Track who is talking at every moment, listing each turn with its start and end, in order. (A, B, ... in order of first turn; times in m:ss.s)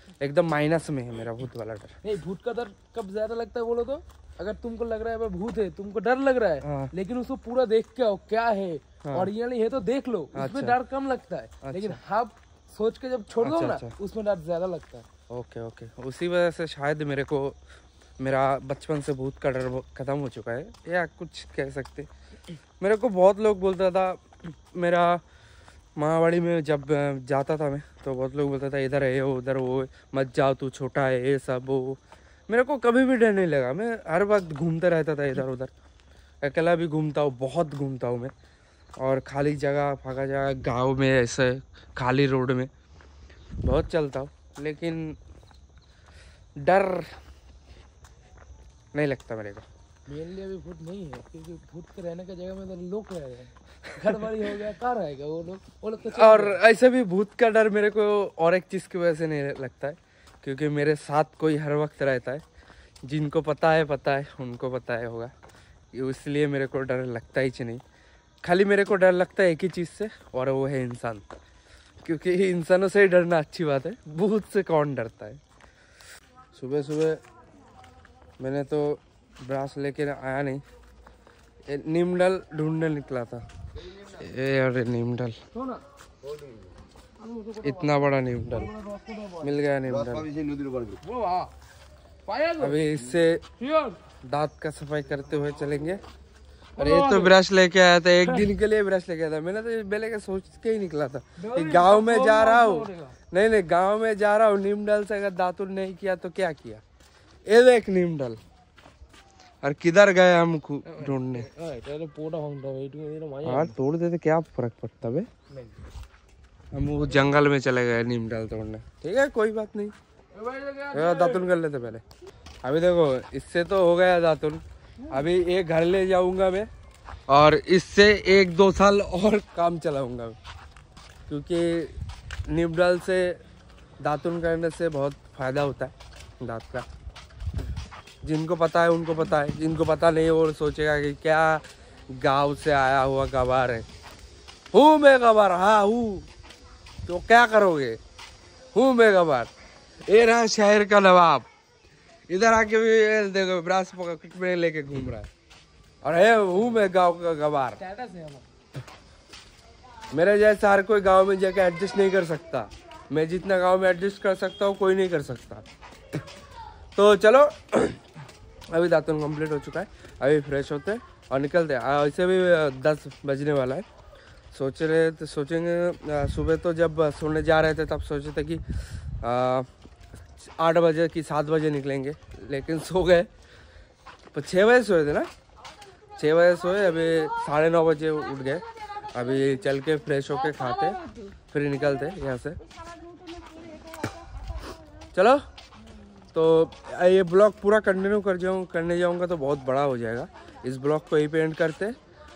0:00.2-0:02.0 A
0:02.0-0:15.0 B
0:06.6-0:06.9 A
0:09.0-0:09.3 A
0:10.3-0:10.8 A
0:11.6-0:12.0 A
0:13.4-0:13.9 A
0:15.3-0:17.6 A
0:18.2-0:22.1 A
0:22.8-0:25.2 A
0:26.0-0:35.7 A
0:36.4-0:38.3 A
0:39.0-0:42.7 A
0:43.6-0:45.2 A
0:46.6-0:47.1 A
0:48.9-0:49.7 A
0:50.1-0:56.6 B
0:56.1-1:02.4 A
1:03.0-1:05.3 A
1:05.9-1:07.8 A
1:08.4-1:11.3 A
1:12.0-1:15.4 A
1:16.5-1:17.2 A
1:18.4-1:20.6 A
1:21.7-1:23.4 A
1:23.9-1:25.4 A
1:25.5-1:25.8 B
1:27.2-1:29.6 B
1:27.6-1:28.7 A
1:29.4-1:30.5 A
1:31.0-1:31.5 B
1:32.2-1:32.8 B
1:32.6-1:33.4 A
1:33.6-1:34.0 B
1:34.2-1:36.0 A
1:36.8-1:37.4 B
1:36.8-1:46.8 A
1:38.2-1:38.5 B
1:41.4-1:43.2 B
1:47.5-1:48.4 A
1:49.6-1:51.5 A
1:50.8-1:53.8 B
1:53.4-1:55.3 A
1:55.5-1:55.8 B
1:56.7-1:59.9 A
2:00.3-2:01.5 B
2:00.9-2:02.0 A
2:02.6-2:06.7 A
2:07.3-2:10.4 A
2:11.3-2:12.0 A
2:12.5-2:13.4 A
2:14.0-2:16.8 A
2:18.2-2:23.8 A
2:24.7-2:26.3 A
2:27.0-2:28.0 A
2:28.7-2:29.5 A
2:30.1-2:31.5 A
2:32.3-2:35.3 A
2:36.0-2:37.8 A
2:37.8-2:38.5 B
2:40.1-2:45.6 A
2:47.0-2:48.0 A
2:48.7-2:53.8 A
2:54.5-2:58.6 A
2:59.2-2:59.7 A
3:00.4-3:03.3 A
3:04.3-3:05.3 A
3:06.2-3:12.6 A
3:15.1-3:15.4 A
3:16.3-3:21.9 A